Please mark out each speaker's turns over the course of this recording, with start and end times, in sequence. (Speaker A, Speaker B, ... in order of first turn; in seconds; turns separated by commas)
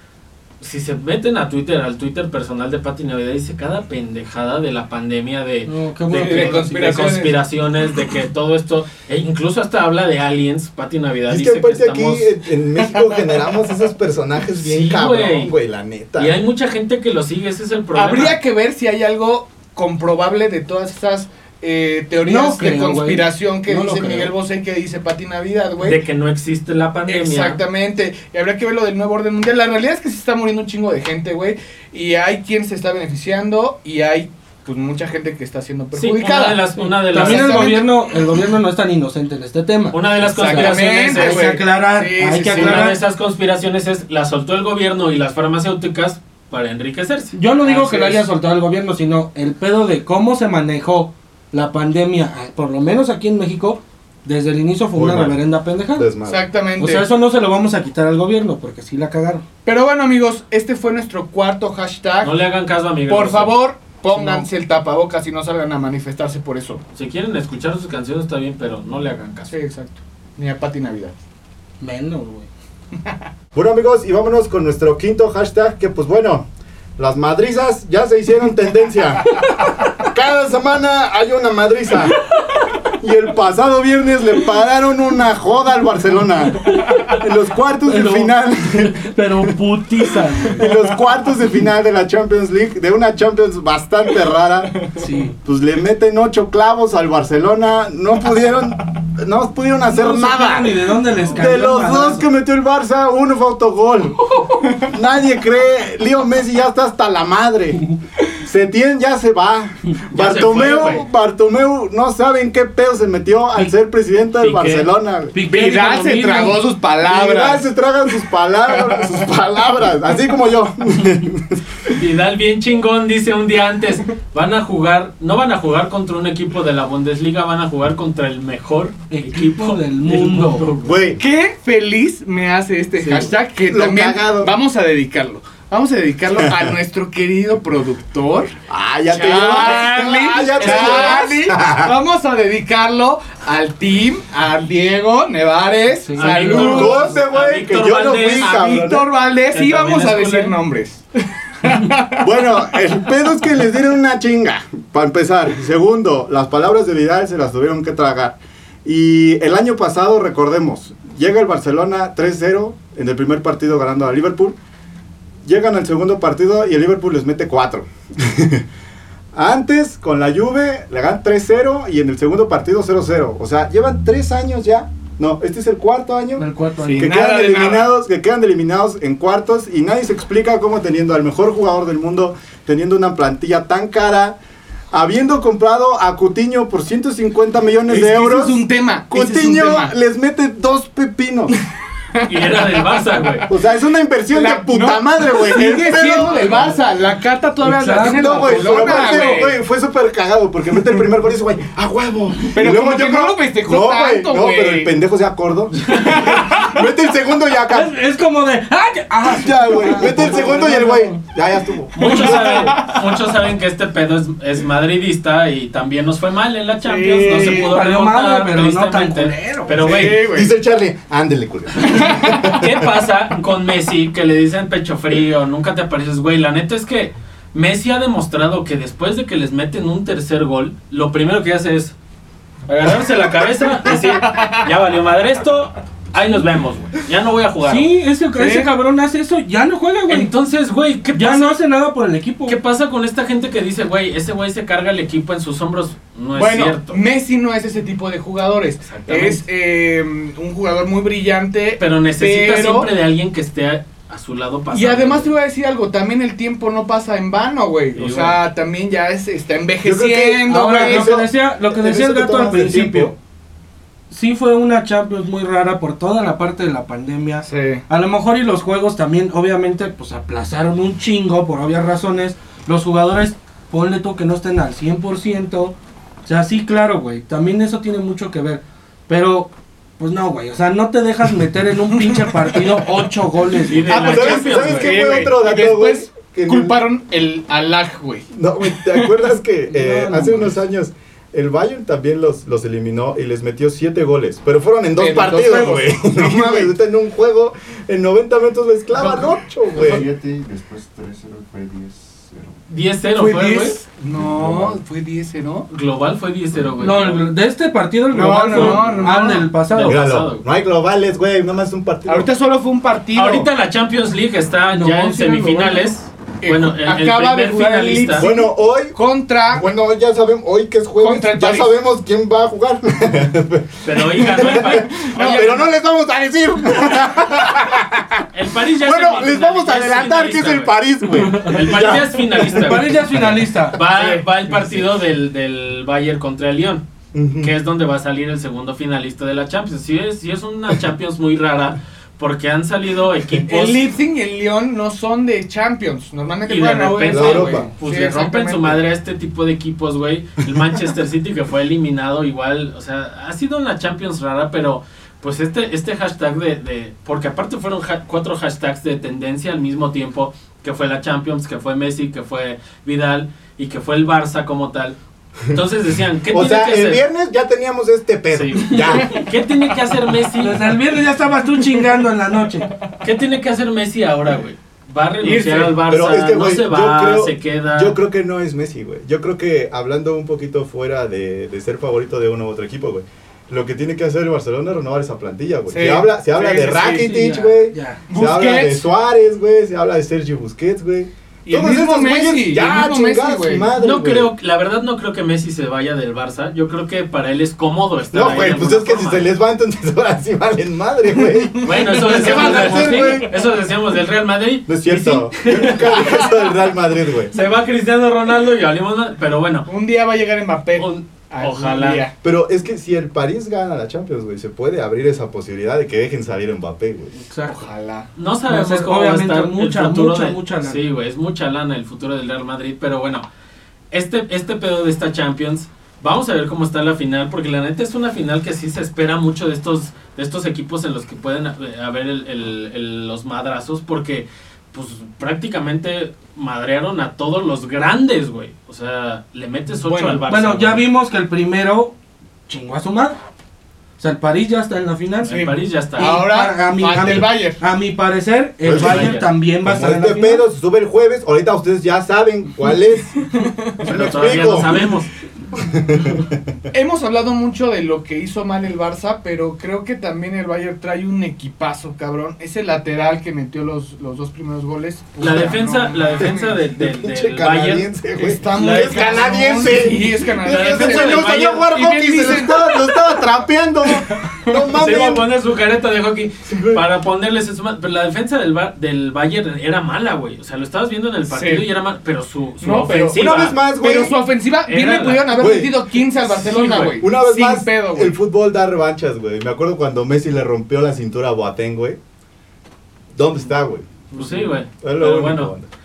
Speaker A: 0.6-12.3, Speaker B: 5.7-6.9, Speaker C: 6.1-7.4, Speaker D: 11.3-16.4, Speaker A: 14.6-15.5, Speaker A: 16.2-18.4, Speaker C: 17.9-26.0, Speaker B: 22.2-24.3, Speaker A: 25.8-27.6, Speaker C: 27.1-37.9, Speaker A: 35.9-37.7, Speaker B: 37.1-43.0, Speaker A: 39.9-41.5, Speaker C: 40.3-43.0, Speaker A: 42.5-48.2, Speaker B: 47.3-56.1, Speaker D: 54.9-55.4, Speaker D: 55.9-56.4, Speaker C: 56.2-57.0, Speaker B: 56.8-59.4, Speaker C: 59.6-62.3, Speaker A: 62.2-63.5, Speaker C: 63.1-66.8, Speaker B: 64.1-64.5, Speaker A: 66.9-69.5, Speaker C: 69.5-71.2, Speaker B: 71.8-72.5, Speaker D: 73.5-76.5, Speaker D: 77.0-82.2, Speaker D: 83.0-89.1, Speaker B: 86.7-87.1, Speaker B: 87.9-90.7, Speaker D: 90.5-94.8, Speaker B: 95.0-95.3, Speaker D: 95.4-104.3, Speaker B: 99.9-102.2, Speaker C: 104.6-104.9, Speaker D: 104.8-107.8, Speaker D: 108.4-115.3, Speaker A: 110.1-111.0, Speaker A: 114.4-114.9, Speaker B: 115.3-116.6, Speaker C: 115.4-117.7, Speaker D: 117.0-121.9, Speaker A: 121.9-131.0, Speaker B: 129.1-130.7, Speaker D: 130.8-131.2, Speaker C: 131.2-138.5, Speaker D: 133.1-134.5, Speaker D: 136.4-136.7, Speaker D: 138.7-141.9, Speaker C: 139.1-147.1, Speaker A: 139.1-141.3, Speaker B: 146.0-146.9, Speaker A: 146.2-148.5, Speaker D: 146.5-149.1, Speaker C: 148.4-151.0, Speaker A: 149.5-150.6, Speaker C: 151.6-152.3, Speaker D: 152.2-164.6, Speaker D: 165.4-168.6, Speaker D: 169.3-176.4, Speaker B: 176.4-177.1, Speaker C: 176.8-177.9, Speaker D: 177.0-184.4, Speaker D: 184.9-191.6, Speaker C: 187.9-189.9, Speaker C: 192.2-193.5, Speaker A: 192.2-193.5, Speaker D: 193.5-196.7, Speaker C: 194.3-199.6, Speaker B: 197.6-199.3, Speaker D: 198.0-207.9, Speaker C: 202.5-204.9, Speaker C: 205.9-206.6, Speaker B: 207.7-211.2, Speaker D: 209.2-212.7, Speaker A: 212.0-220.2, Speaker C: 212.0-213.1, Speaker C: 216.8-217.7, Speaker B: 217.2-219.8, Speaker C: 219.7-220.5, Speaker D: 219.8-222.8, Speaker C: 221.8-222.5, Speaker A: 222.3-231.9, Speaker A: 232.7-237.9, Speaker C: 233.8-234.7, Speaker B: 237.6-240.3, Speaker C: 238.3-238.7, Speaker A: 240.1-241.6, Speaker B: 241.1-242.6, Speaker A: 242.5-247.0, Speaker C: 246.3-252.9, Speaker A: 248.8-249.4, Speaker A: 251.8-255.3, Speaker C: 254.7-261.2, Speaker A: 257.9-258.4, Speaker D: 259.8-263.1, Speaker B: 260.4-263.1, Speaker B: 264.1-275.7, Speaker C: 267.4-267.8, Speaker B: 276.2-283.9, Speaker C: 281.9-282.9, Speaker A: 283.6-285.1, Speaker C: 283.9-289.2, Speaker D: 283.9-286.8, Speaker D: 288.3-300.0, Speaker B: 289.7-290.6, Speaker C: 295.0-296.7, Speaker C: 298.9-299.3, Speaker E: 299.7-302.6, Speaker A: 302.7-303.8, Speaker C: 303.1-305.7, Speaker E: 304.1-304.8, Speaker A: 305.7-307.2, Speaker E: 306.5-306.9, Speaker B: 306.8-310.0, Speaker C: 308.1-309.5, Speaker E: 308.5-309.3, Speaker A: 309.6-310.4, Speaker D: 309.8-312.3, Speaker C: 312.1-313.5, Speaker A: 313.1-318.3, Speaker B: 314.7-315.9, Speaker C: 316.4-319.6, Speaker D: 318.1-318.9, Speaker D: 319.5-328.2, Speaker C: 321.0-321.7, Speaker A: 323.8-325.7, Speaker C: 324.2-325.5, Speaker A: 328.3-330.7, Speaker D: 328.8-332.9, Speaker A: 331.2-333.1, Speaker B: 332.5-333.8, Speaker A: 333.7-336.8, Speaker C: 333.9-334.9, Speaker D: 337.1-337.5, Speaker A: 337.4-343.9, Speaker C: 343.5-348.8, Speaker A: 346.5-364.9, Speaker D: 347.0-347.7, Speaker A: 365.5-367.0, Speaker D: 366.3-369.2, Speaker A: 368.3-370.7, Speaker C: 368.8-369.3, Speaker B: 370.4-372.7, Speaker A: 373.0-377.9, Speaker C: 375.2-375.8, Speaker D: 375.9-394.3, Speaker C: 385.7-387.1, Speaker B: 387.0-388.0, Speaker C: 388.1-388.8, Speaker C: 391.4-393.7, Speaker A: 393.8-399.3, Speaker D: 398.1-403.5, Speaker C: 401.5-403.3, Speaker A: 401.6-406.2, Speaker D: 404.7-407.3, Speaker C: 405.5-406.4, Speaker A: 407.3-409.7, Speaker C: 409.7-412.1, Speaker A: 410.8-412.1, Speaker D: 412.2-417.2, Speaker B: 417.2-417.6, Speaker C: 417.5-418.1, Speaker A: 418.1-423.2, Speaker B: 418.5-420.8, Speaker A: 423.9-440.8, Speaker C: 439.8-440.2, Speaker B: 440.3-441.9, Speaker B: 442.5-443.2, Speaker B: 444.0-445.3, Speaker C: 445.2-447.6, Speaker A: 445.2-446.2, Speaker B: 446.0-450.4, Speaker D: 448.6-453.2, Speaker A: 448.6-449.3, Speaker C: 453.3-453.7, Speaker D: 453.8-454.8, Speaker A: 453.8-455.1, Speaker D: 455.6-456.4, Speaker C: 456.7-466.6, Speaker A: 465.2-467.9, Speaker D: 466.2-475.3, Speaker C: 468.1-473.0, Speaker A: 468.5-469.8, Speaker A: 470.4-471.6, Speaker C: 473.9-474.5, Speaker A: 474.7-483.6, Speaker D: 476.4-476.8, Speaker C: 481.3-481.6, Speaker C: 482.6-488.1, Speaker D: 483.1-484.1, Speaker A: 484.6-485.4, Speaker D: 485.4-485.8, Speaker A: 486.4-487.0, Speaker D: 487.0-492.0, Speaker D: 493.1-495.7, Speaker A: 494.1-495.5